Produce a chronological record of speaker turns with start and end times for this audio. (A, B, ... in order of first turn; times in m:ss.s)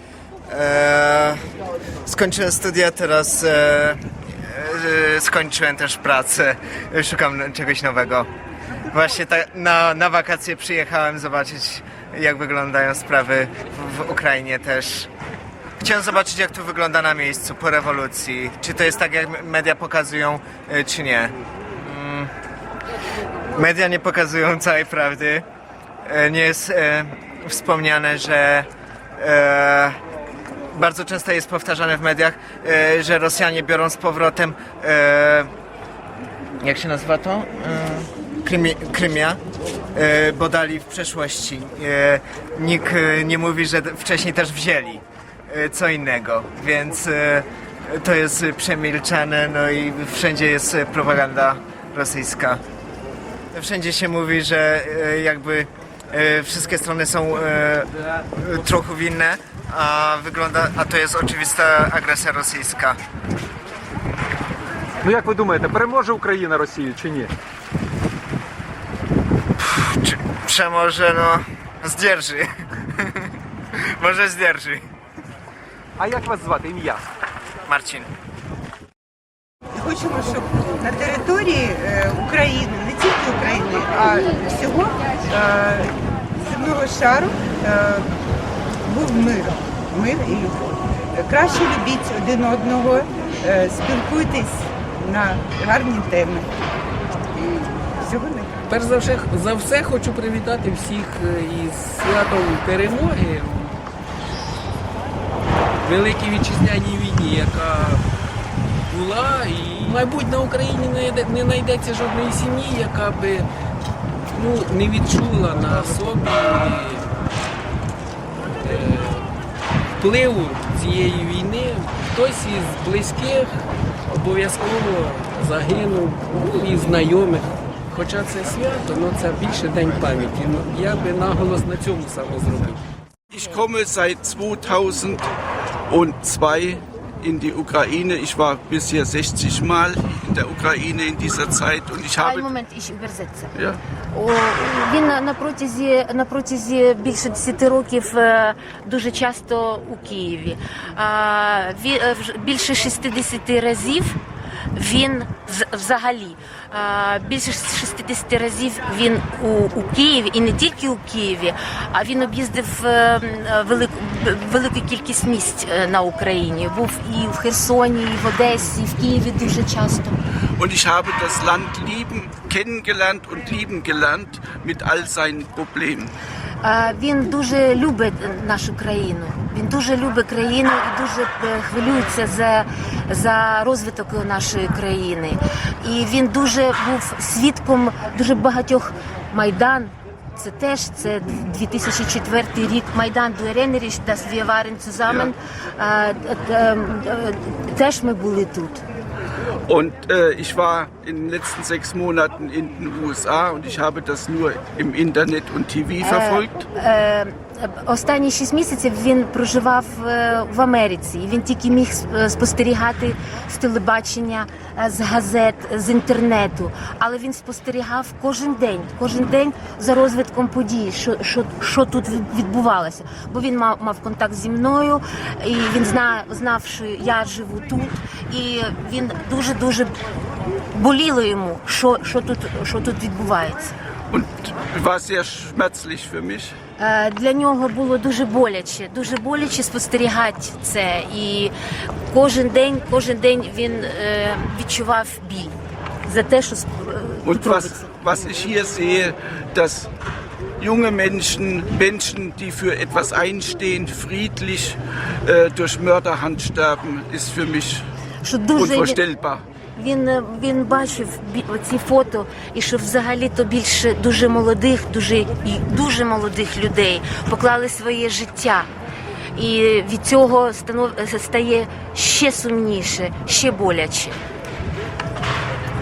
0:00.5-0:01.4 A
0:02.0-0:08.3 A
0:08.9-0:15.1 A
0:15.8-0:22.3 A
0:23.5-0:25.4 A
0:26.0-0:30.0 A
0:30.7-0:35.5 A
0:36.6-0:39.4 A
0:39.9-0:52.6 A
0:53.5-1:03.0 A
1:05.0-1:07.3 B
1:09.6-1:13.3 A
1:13.8-1:14.8 A
1:16.0-1:17.0 B
1:17.6-1:18.1 A
1:19.7-1:28.1 C
1:28.8-1:36.5 C
1:37.4-1:38.5 C
1:38.7-1:43.8 D
1:45.8-1:48.0 D
1:48.9-1:53.5 D
1:54.3-1:57.1 D
1:58.6-1:59.2 D
2:00.0-2:03.5 D
2:04.1-2:12.8 D
2:13.3-2:15.3 E
2:15.9-2:22.5 E
2:22.2-2:23.5 F
2:24.1-2:34.2 F
2:34.7-2:50.2 F
2:50.6-2:56.1 E
2:56.6-3:18.8 F
3:19.7-3:26.5 E
3:26.0-3:49.9 F
3:50.7-3:53.7 F
3:54.1-3:56.5 E
3:56.8-4:01.5 F
4:02.1-4:07.9 F
4:07.2-4:09.9 E
4:10.6-4:17.8 E
4:18.2-4:19.0 F
4:18.5-4:19.4 E
4:19.8-4:28.7 F
4:29.3-4:34.2 F